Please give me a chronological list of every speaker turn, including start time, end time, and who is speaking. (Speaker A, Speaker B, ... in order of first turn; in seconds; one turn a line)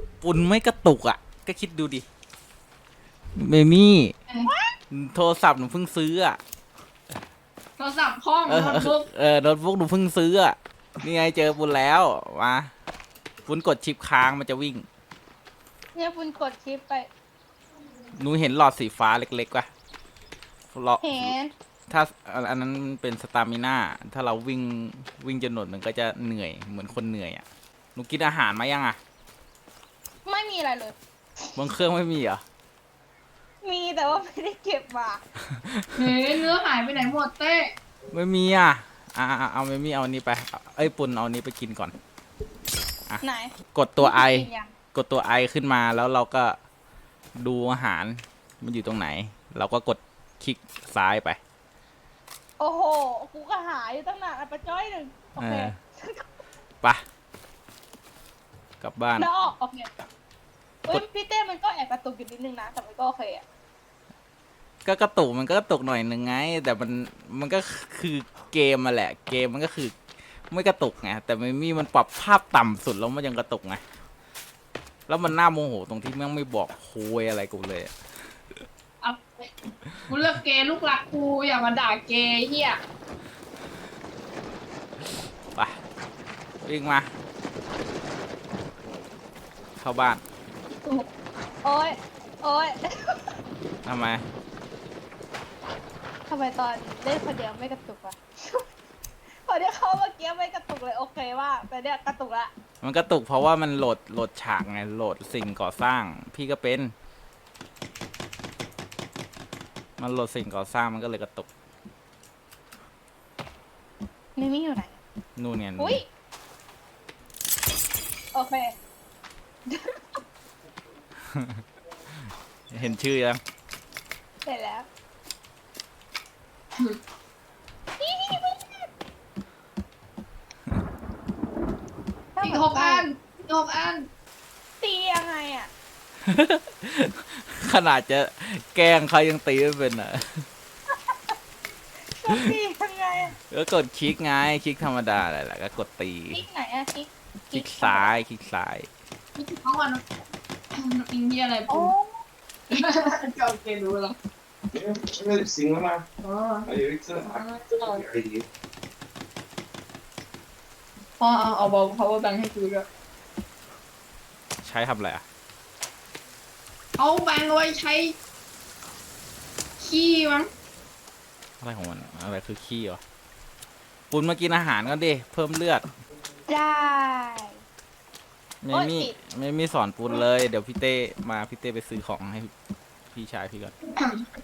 Speaker A: 0.2-2.0
Speaker A: 3.4-4.1
Speaker B: 4.4-4.8
Speaker A: 4.9-6.4
Speaker C: 7.8-9.1
Speaker A: 8.5-12.7
Speaker A: 13.5-14.8
Speaker B: 15.9-17.1
Speaker A: 18.2-19.7
Speaker A: 20.7-21.3
Speaker B: 21.0-21.5
Speaker A: 21.9-29.0
Speaker B: 30.2-30.9
Speaker A: 31.6-32.4
Speaker B: 33.6-35.2
Speaker C: 36.0-37.7
Speaker A: 38.1-41.9
Speaker B: 43.2-44.7
Speaker A: 43.7-46.6
Speaker A: 47.4-51.4
Speaker B: 52.6-56.2
Speaker A: 55.4-55.8
Speaker A: 58.8-59.3
Speaker B: 59.2-59.9
Speaker B: 60.9-63.4
Speaker A: 64.8-70.0
Speaker A: 70.5-73.8
Speaker A: 75.1-77.9
Speaker C: 79.0-79.5
Speaker C: 80.1-82.8
Speaker A: 85.0-85.8
Speaker A: 86.6-87.1
Speaker A: 89.8-90.2
Speaker B: 91.6-93.3
Speaker A: 93.8-94.2
Speaker B: 96.3-98.7
Speaker B: 99.5-102.5
Speaker A: 102.8-106.9
Speaker A: 110.0-111.5
Speaker B: 114.4-115.0
Speaker A: 115.4-116.0
Speaker B: 115.8-116.1
Speaker B: 118.3-118.7
Speaker B: 119.7-120.2
Speaker A: 121.3-121.6
Speaker A: 122.7-123.4
Speaker B: 124.5-124.9
Speaker B: 128.0-128.9
Speaker B: 132.4-133.1
Speaker C: 132.4-134.1
Speaker B: 134.8-135.7
Speaker A: 136.2-140.5
Speaker B: 140.9-141.3
Speaker B: 142.1-143.3
Speaker A: 143.5-146.4
Speaker B: 146.3-148.1
Speaker A: 147.5-148.9
Speaker C: 149.4-150.0
Speaker C: 150.8-151.9
Speaker B: 151.7-152.2
Speaker C: 152.7-154.2
Speaker D: 154.7-156.0
Speaker C: 156.2-156.7
Speaker D: 156.7-157.4
Speaker C: 157.2-158.1
Speaker D: 157.9-158.4
Speaker C: 161.2-162.9
Speaker A: 164.6-165.2
Speaker C: 167.0-168.1
Speaker C: 169.8-170.5
Speaker A: 171.6-173.0
Speaker A: 174.1-175.9
Speaker B: 176.5-177.6
Speaker A: 178.6-182.5
Speaker B: 178.7-179.2
Speaker A: 183.1-183.7
Speaker C: 184.0-184.2